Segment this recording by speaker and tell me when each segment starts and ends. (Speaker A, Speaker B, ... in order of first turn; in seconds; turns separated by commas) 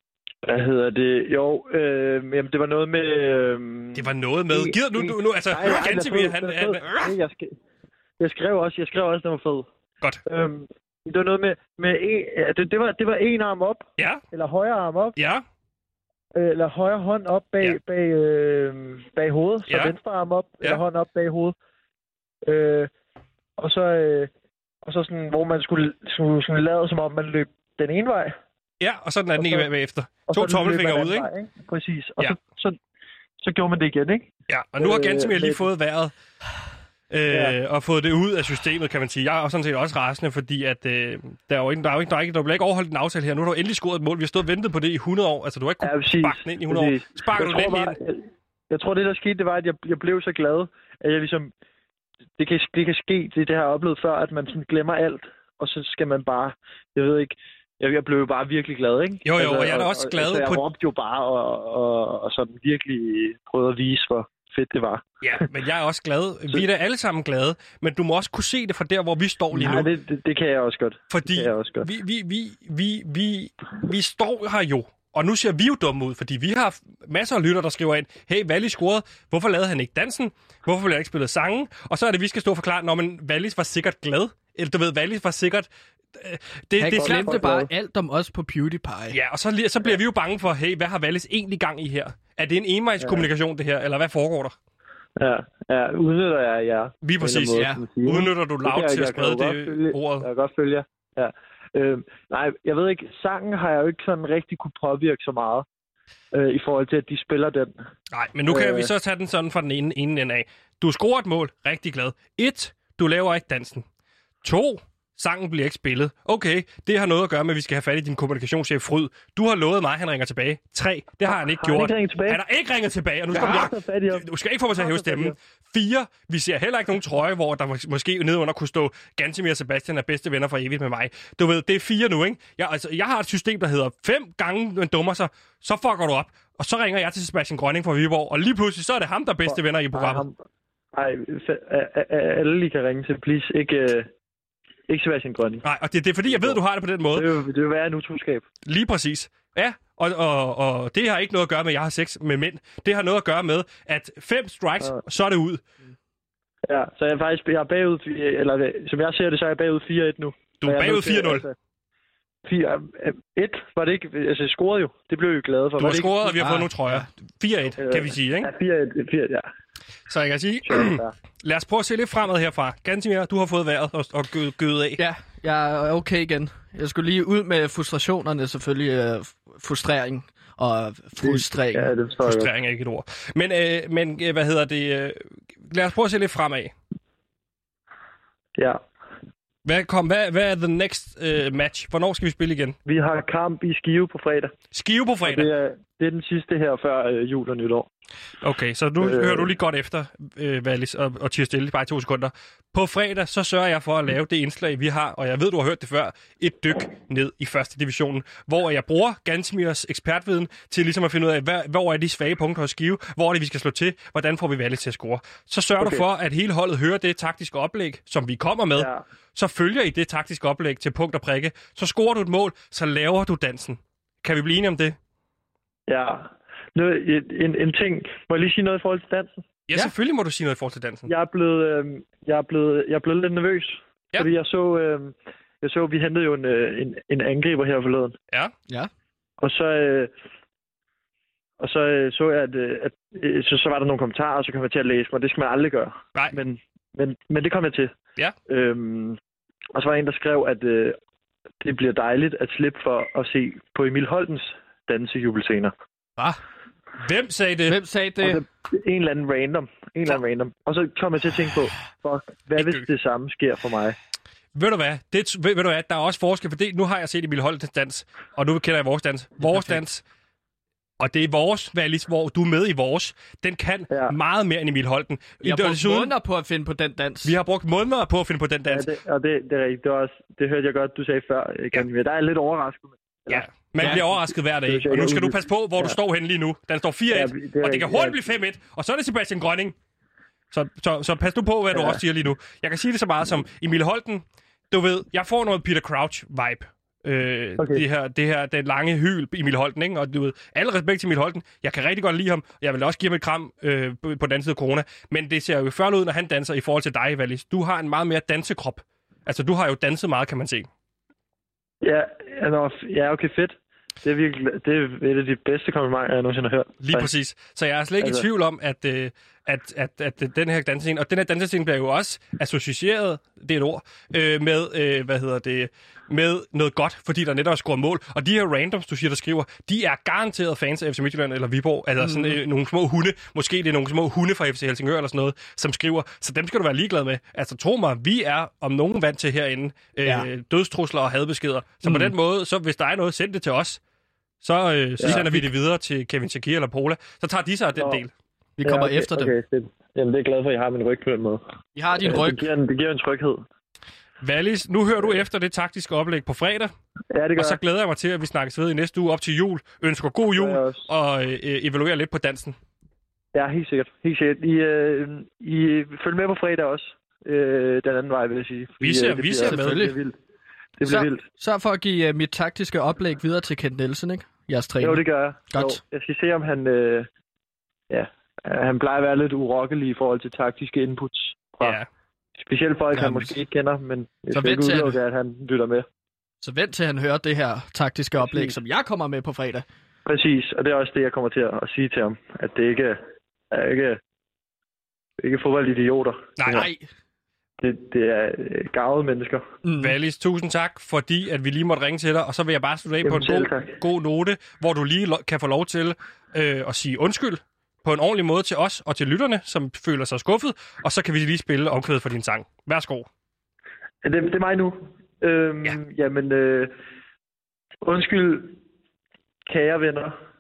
Speaker A: 0.5-7.5, Speaker B: 4.0-7.1, Speaker A: 8.2-9.6, Speaker A: 10.3-15.2, Speaker B: 14.0-14.2, Speaker B: 15.2-15.4, Speaker A: 16.4-21.5, Speaker B: 19.7-19.9, Speaker A: 22.5-22.9, Speaker A: 23.6-24.3, Speaker A: 24.9-28.3, Speaker B: 28.8-31.3, Speaker A: 29.4-29.7, Speaker A: 30.3-32.8, Speaker A: 33.4-35.6, Speaker B: 34.5-36.1, Speaker B: 37.1-47.9, Speaker A: 45.8-51.5, Speaker A: 52.4-65.0, Speaker B: 59.2-60.6, Speaker B: 65.2-69.9, Speaker A: 69.5-71.9, Speaker B: 71.1-87.5, Speaker C: 86.8-89.2, Speaker A: 86.9-87.7, Speaker B: 89.1-94.5, Speaker A: 95.2-105.7, Speaker B: 97.0-100.3, Speaker C: 97.5-97.8, Speaker A: 106.3-107.7, Speaker B: 108.1-113.8, Speaker A: 108.5-108.9, Speaker B: 114.4-140.2, Speaker A: 121.3-122.4, Speaker A: 123.3-125.3, Speaker A: 139.5-140.3, Speaker A: 140.9-144.1, Speaker A: 144.9-145.6, Speaker B: 145.6-147.3, Speaker A: 146.3-146.6, Speaker A: 147.1-148.4, Speaker B: 148.7-155.6, Speaker A: 156.7-161.5, Speaker B: 160.6-161.5, Speaker A: 162.4-166.4, Speaker B: 165.8-168.5, Speaker C: 166.4-167.1, Speaker A: 167.8-169.5, Speaker B: 170.1-175.0, Speaker A: 170.7-171.1, Speaker C: 175.0-181.9, Speaker A: 181.2-182.5, Speaker B: 182.2-186.7, Speaker B: 189.6-192.8, Speaker A: 192.9-194.5, Speaker B: 194.7-195.5, Speaker A: 195.2-197.9, Speaker B: 198.4-225.0, Speaker A: 199.0-199.5, Speaker A: 218.8-219.0, Speaker A: 225.9-229.4, Speaker B: 229.7-231.1, Speaker A: 231.1-238.1, Speaker A: 239.4-240.1, Speaker A: 241.6-247.9, Speaker A: 248.5-249.2, Speaker A: 249.7-251.0, Speaker A: 251.6-255.7, Speaker B: 257.0-257.8, Speaker C: 257.7-258.4, Speaker A: 258.2-263.9, Speaker B: 262.6-262.9, Speaker B: 264.6-270.0, Speaker C: 269.4-269.8, Speaker B: 271.0-276.1, Speaker A: 273.9-274.1, Speaker C: 275.4-277.4, Speaker B: 277.2-278.9, Speaker A: 278.7-285.9, Speaker B: 283.3-289.7, Speaker A: 287.1-288.2, Speaker B: 290.5-310.7, Speaker A: 291.7-292.0, Speaker A: 311.8-317.1, Speaker B: 316.8-343.8, Speaker A: 318.0-318.3, Speaker C: 332.0-332.4, Speaker C: 341.8-342.1, Speaker B: 344.4-348.1, Speaker A: 345.0-345.3, Speaker C: 345.0-345.5, Speaker C: 348.6-349.3, Speaker A: 348.6-351.4, Speaker C: 351.8-352.4, Speaker A: 352.0-353.4, Speaker B: 354.2-356.7, Speaker A: 357.1-357.6, Speaker B: 357.4-362.6, Speaker A: 360.4-360.8, Speaker A: 363.3-370.1, Speaker B: 368.8-369.9, Speaker C: 369.4-369.9, Speaker A: 370.8-371.2, Speaker C: 370.9-375.8, Speaker A: 374.8-377.1, Speaker A: 377.9-381.8, Speaker B: 381.6-381.9, Speaker A: 382.4-385.9, Speaker C: 382.9-383.4, Speaker C: 384.3-385.0, Speaker C: 386.4-389.6, Speaker A: 388.2-388.6, Speaker A: 390.1-393.0, Speaker A: 393.5-394.0, Speaker A: 395.2-396.6, Speaker B: 396.4-396.7, Speaker C: 396.5-396.8, Speaker A: 397.6-399.4, Speaker C: 399.6-399.9, Speaker B: 399.8-413.1, Speaker A: 403.0-403.8, Speaker A: 414.0-416.7, Speaker A: 417.8-418.6, Speaker A: 419.5-420.1